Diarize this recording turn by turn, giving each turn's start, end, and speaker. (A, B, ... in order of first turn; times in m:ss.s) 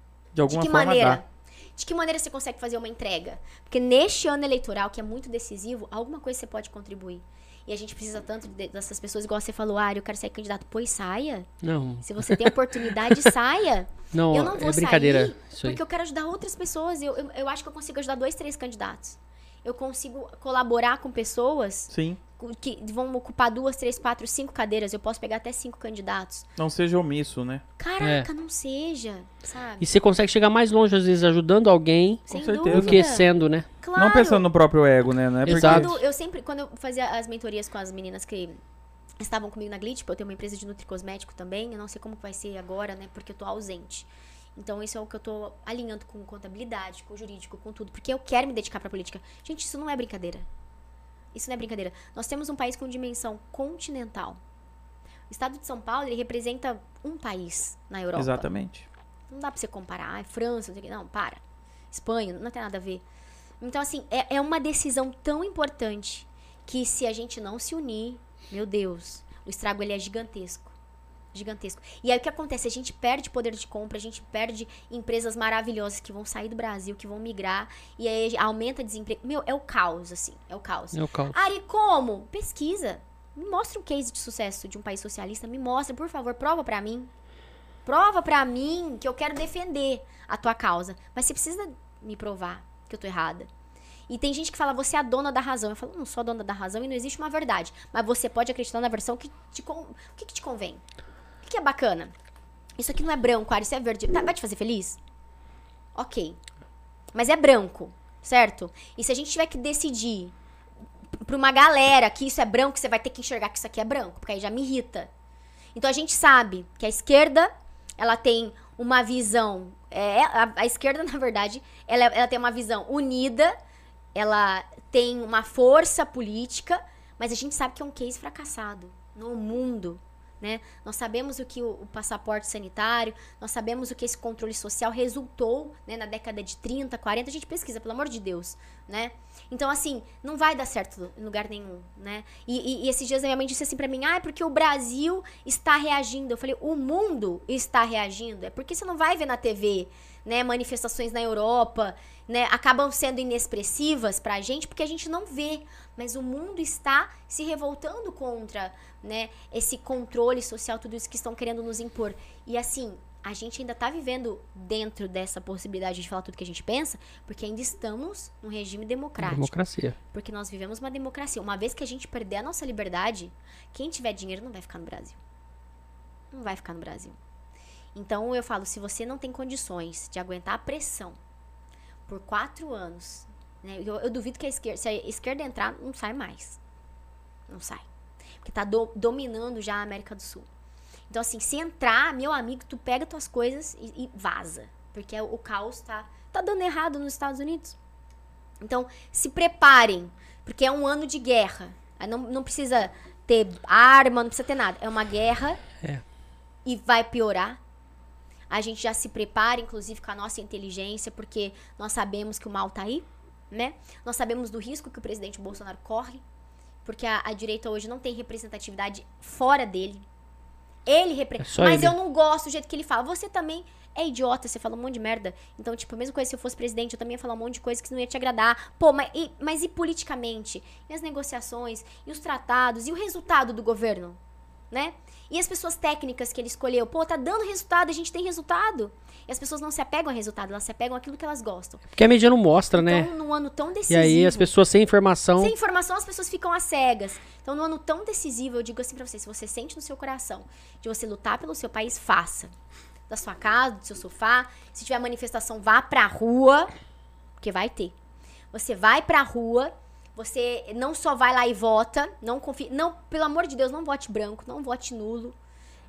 0:00.3-0:01.2 A
0:00.5-0:11.5 B
0:11.6-0:13.3 C
0:12.0-0:26.5 B
0:14.1-0:15.8 C
0:21.9-0:22.2 A
0:26.6-0:27.6 A
0:27.8-0:29.9 B
0:28.0-0:28.3 C
0:29.8-0:33.7 C
0:32.3-0:33.3 B
0:32.3-0:33.0 A
0:33.8-0:34.4 B
0:34.0-0:36.0 A
0:35.5-0:36.0 C
0:35.5-0:38.6 B
0:39.2-0:50.5 B
0:51.3-0:54.4 B
0:55.3-0:58.5 B
0:58.2-0:58.9 A
0:59.3-1:03.0 B
1:03.6-1:10.8 B
1:11.3-1:27.1 B
1:20.9-1:21.4 C
1:27.8-1:33.5 B
1:34.1-1:40.8 B
1:41.4-1:42.1 B
1:42.8-1:45.0 B
1:46.0-1:46.4 B
1:47.1-1:50.3 B
1:51.2-1:55.1 B
1:55.8-2:03.6 B
2:04.2-2:49.5 B
2:49.2-2:50.0 C
2:50.1-2:55.2 B
2:56.3-2:57.2 B
2:58.0-3:01.2 B
3:02.1-3:06.6 B
3:07.5-3:07.8 B
3:08.4-3:10.5 B
3:11.1-3:17.8 B
3:18.6-3:25.6 B
3:26.6-3:27.6 B
3:28.5-3:36.2 B
3:36.8-3:40.0 B
3:40.9-3:54.2 B
3:41.4-3:41.9 C
3:54.7-4:01.8 B
4:02.0-4:03.1 C
4:02.7-4:04.5 B
4:03.9-4:05.5 C
4:05.4-4:12.5 B
4:13.1-4:16.7 B
4:17.4-4:18.0 B
4:18.5-4:25.4 B